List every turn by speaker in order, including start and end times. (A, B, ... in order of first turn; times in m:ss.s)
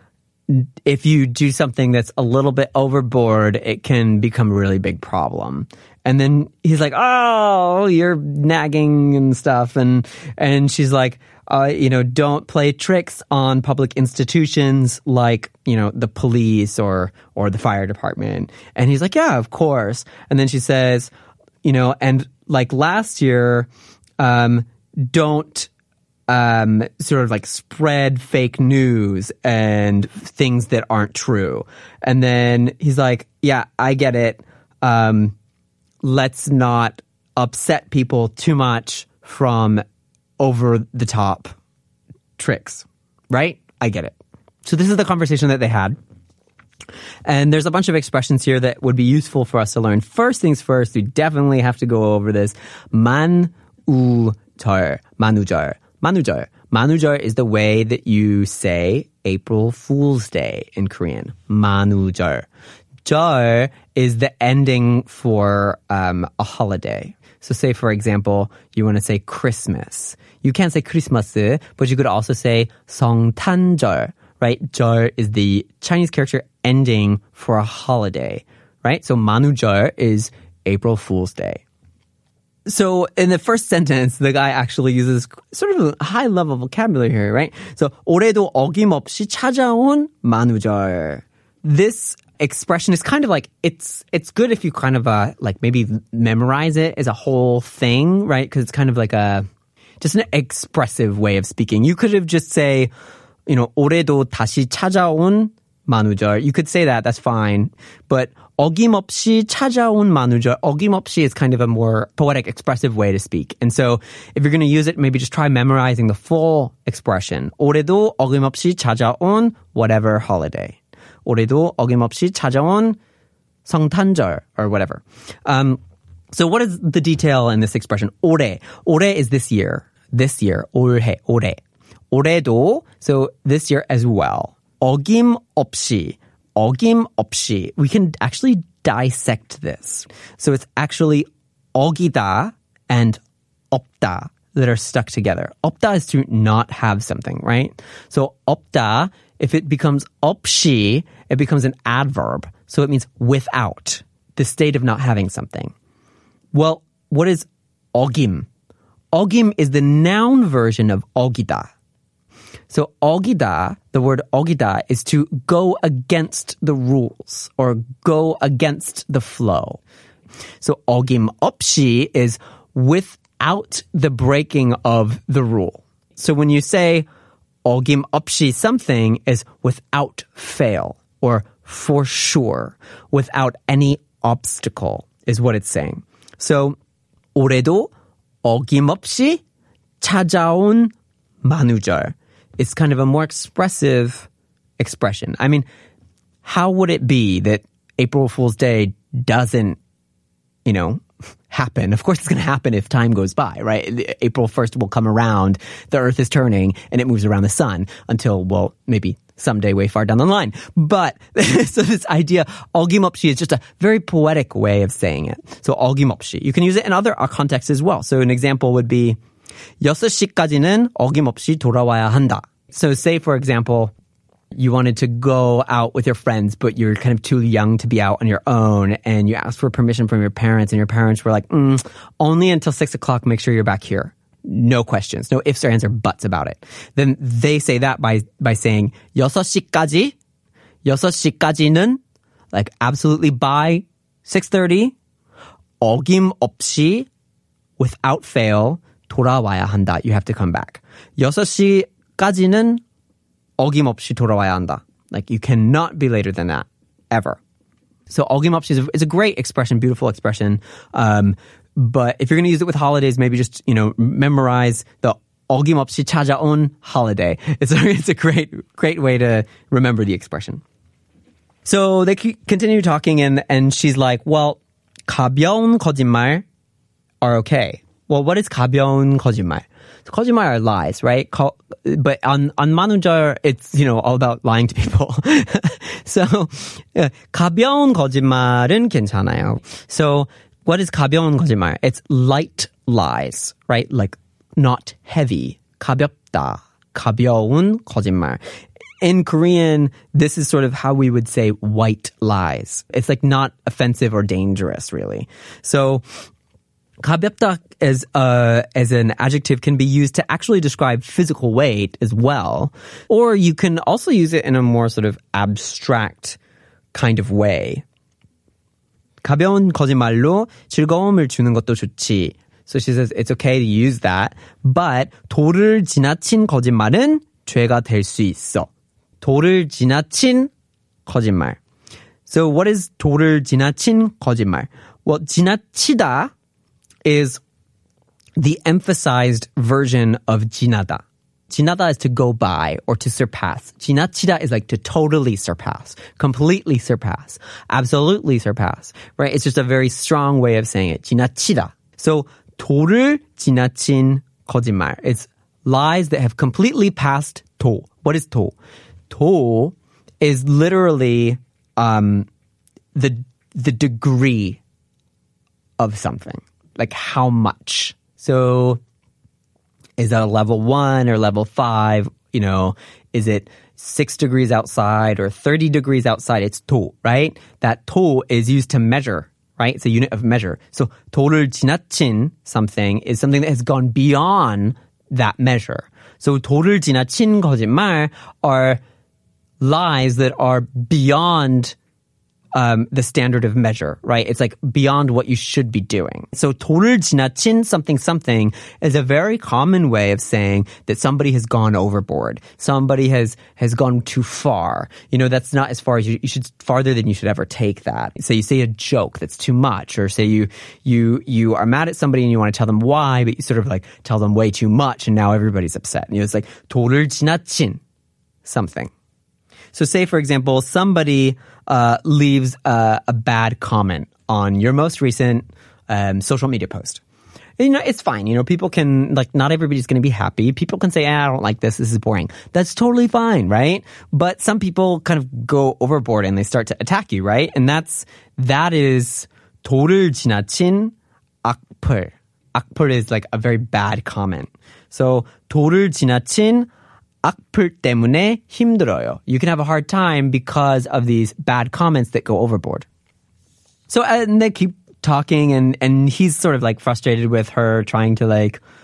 0:00.5-0:21.1 A
0:21.6-0:23.7 A
0:24.2-0:25.7 A
0:26.3-0:35.3 A
0:36.0-0:39.8 A
0:40.4-0:41.5 A
0:42.4-0:46.0 A
0:47.2-1:02.5 A
1:03.0-1:21.6 A
1:22.6-1:39.5 A
1:40.0-1:42.9 A
1:43.5-2:03.0 A
2:03.6-2:05.8 A
2:06.3-2:11.6 A
2:12.1-2:23.2 A
2:23.7-2:35.7 A
2:36.5-2:38.5 A
2:39.1-2:41.7 A
2:42.7-2:49.8 A
2:50.6-2:57.0 A
2:57.6-3:06.8 A
3:07.3-3:07.9 A
3:08.4-3:09.4 A
3:10.0-3:14.3 A
3:14.8-3:15.6 A
3:16.4-3:19.8 A
3:20.6-3:39.2 A
3:39.8-3:43.9 A
3:44.5-4:00.1 A
4:00.8-4:02.0 A
4:02.5-4:04.9 A
4:05.8-4:07.1 A
4:07.8-4:12.8 A
4:13.6-4:17.4 A
4:18.1-4:30.6 A
4:31.6-4:36.4 A
4:37.2-4:58.4 A
4:59.0-5:06.0 A
5:07.0-5:16.4 A
5:16.9-5:17.8 A
5:19.2-5:28.7 A
5:29.2-5:30.5 A
5:31.0-5:31.6 A
5:32.2-5:36.3 A
5:37.0-5:37.4 A
5:38.4-5:58.5 A
5:59.1-6:02.3 A
6:02.9-6:04.6 A
6:05.8-6:08.8 A
6:10.0-6:28.8 A
6:29.6-6:31.7 A
6:32.5-6:57.8 A
6:58.4-6:58.9 A
6:59.7-7:07.0 A
7:07.6-7:26.7 A
7:27.2-7:32.9 A
7:33.9-7:38.6 A